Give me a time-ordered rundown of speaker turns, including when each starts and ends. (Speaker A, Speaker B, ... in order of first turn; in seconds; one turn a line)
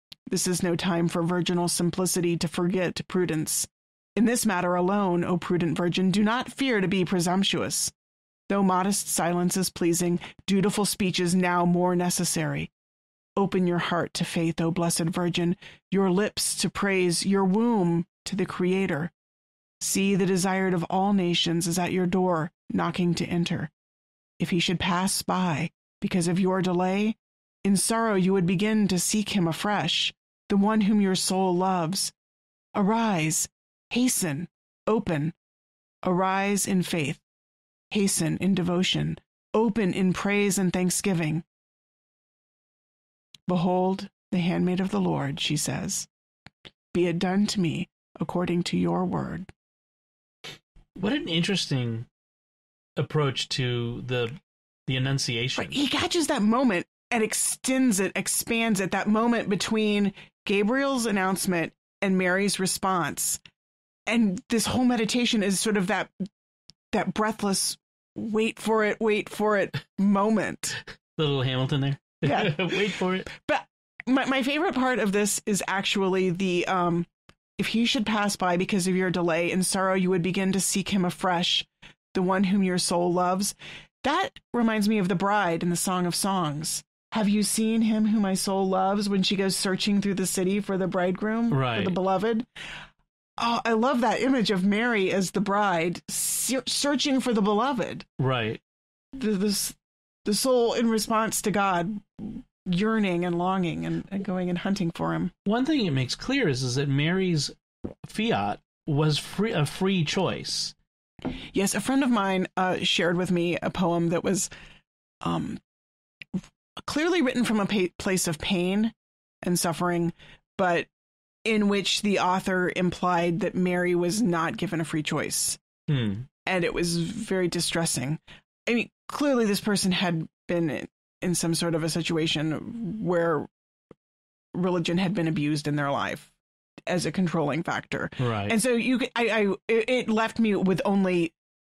Speaker A: 0.3-7.9
Speaker A: 8.5-12.7
Speaker A: 13.3-19.1
Speaker A: 19.8-23.7
Speaker A: 24.4-32.1
Speaker A: 32.7-35.3
Speaker A: 36.0-37.2
Speaker A: 37.9-41.4
Speaker A: 43.5-46.1
Speaker A: 46.9-49.5
Speaker B: 51.0-52.1
Speaker B: 53.0-55.8
Speaker A: 55.6-63.4
Speaker A: 64.1-66.1
Speaker A: 66.9-70.8
Speaker B: 71.2-73.3
Speaker A: 72.2-92.5
Speaker B: 91.5-92.0
Speaker A: 93.4-98.0
Speaker B: 98.2-98.6
Speaker A: 99.1-105.3
Speaker B: 105.5-110.7
Speaker A: 111.3-114.5
Speaker A: 115.2-115.6
Speaker A: 116.8-120.9
Speaker A: 121.4-125.6
Speaker B: 125.9-126.3
Speaker A: 126.4-133.5
Speaker A: 134.5-136.3
Speaker A: 136.9-141.3
Speaker B: 138.2-138.6